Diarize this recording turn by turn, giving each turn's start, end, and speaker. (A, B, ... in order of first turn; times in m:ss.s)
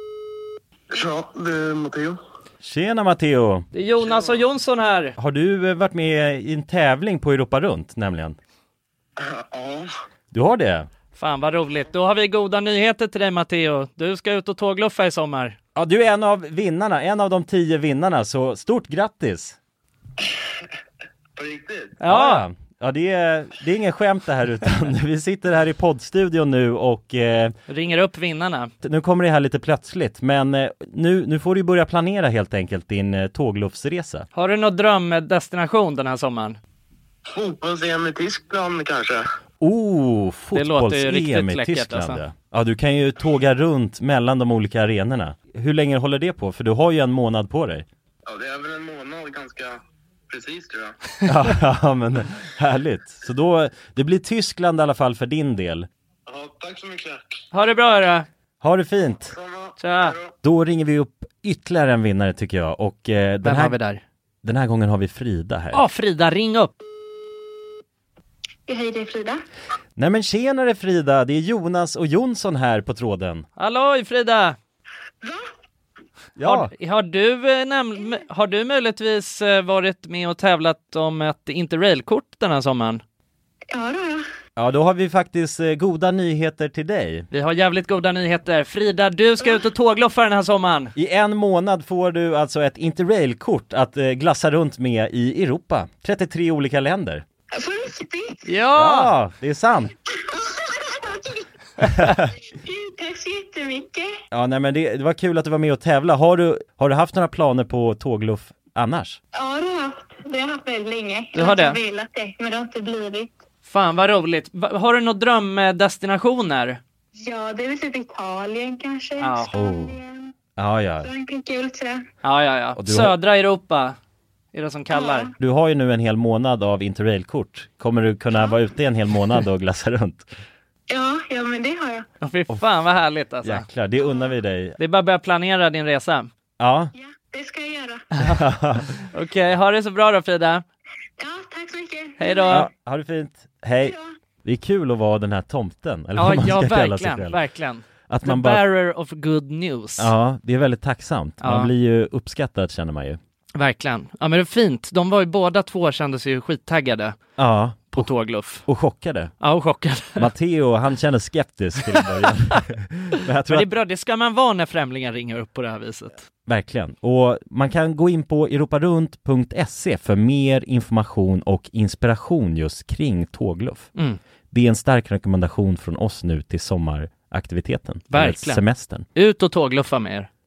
0:00.9-0:02.2 A
0:02.6-0:03.7 B
0:03.7-0:05.2 C
0:05.2-0:08.4 B
0:09.2-0:09.9 A
0:10.3-0:10.9 B
0:11.2-0:15.6 C
0:15.8-0:19.6 B
0:21.4-0:22.0 A
0:22.0-0:22.4 C
0:22.1-0:27.6 B
0:27.7-0:28.7 C
0:28.8-0:34.3 B
0:34.3-0:36.6 C
0:37.3-0:39.3 A
0:39.6-0:47.9 B
0:40.5-0:42.2 C
0:48.3-0:50.9 A
0:51.2-0:55.9 B
0:56.3-0:57.4 A
0:57.5-0:58.3 C
0:58.6-0:59.4 B
0:59.3-1:00.3 A
0:59.8-1:00.2 C
1:00.4-1:03.8 B
1:03.4-1:04.0 C
1:04.4-1:05.8 B
1:05.7-1:06.7 C
1:08.7-1:09.4 D
1:10.0-1:13.4 B
1:13.6-1:14.6 C
1:15.2-1:15.5 D
1:16.4-1:16.7 B
1:16.4-1:23.0 C
1:23.7-1:24.2 D
1:24.6-1:27.3 B
1:27.3-1:31.0 C
1:31.0-1:37.2 B
1:37.6-1:38.6 D
1:38.5-1:39.1 C
1:38.8-1:39.9 B
1:40.3-1:41.5 D
1:42.0-1:42.3 B
1:42.6-1:44.1 D
1:44.3-1:49.2 B
1:49.3-1:53.4 D
1:51.4-1:51.8 C
1:53.7-1:56.8 C
1:57.2-2:00.3 D
1:59.2-1:59.5 C
1:59.5-2:00.0 B
2:00.6-2:01.1 B
2:01.0-2:02.0 D
2:02.2-2:04.0 C
2:02.8-2:03.2 B
2:04.5-2:05.3 C
2:04.9-2:05.3 D
2:05.4-2:10.3 B
2:10.9-2:12.1 D
2:12.2-2:13.6 C
2:13.4-2:14.8 B
2:14.8-2:16.3 C
2:16.6-2:16.9 B
2:17.0-2:18.1 D
2:18.2-2:18.9 B
2:19.1-2:20.6 C
2:21.2-2:22.6 D
2:22.2-2:22.7 C
2:22.5-2:27.4 B
2:23.8-2:24.1 D
2:26.2-2:30.1 C
2:28.1-2:28.6 B
2:30.0-2:33.2 B
2:31.4-2:31.7 C
2:33.6-2:37.2 C
2:37.4-2:38.1 B
2:37.9-2:38.7 C
2:38.6-2:39.3 B
2:39.4-2:40.3 C
2:40.2-2:43.7 B
2:43.5-2:46.2 C
2:46.5-2:53.9 B
2:54.5-2:59.0 B
2:58.1-2:58.6 C
2:59.2-3:00.3 C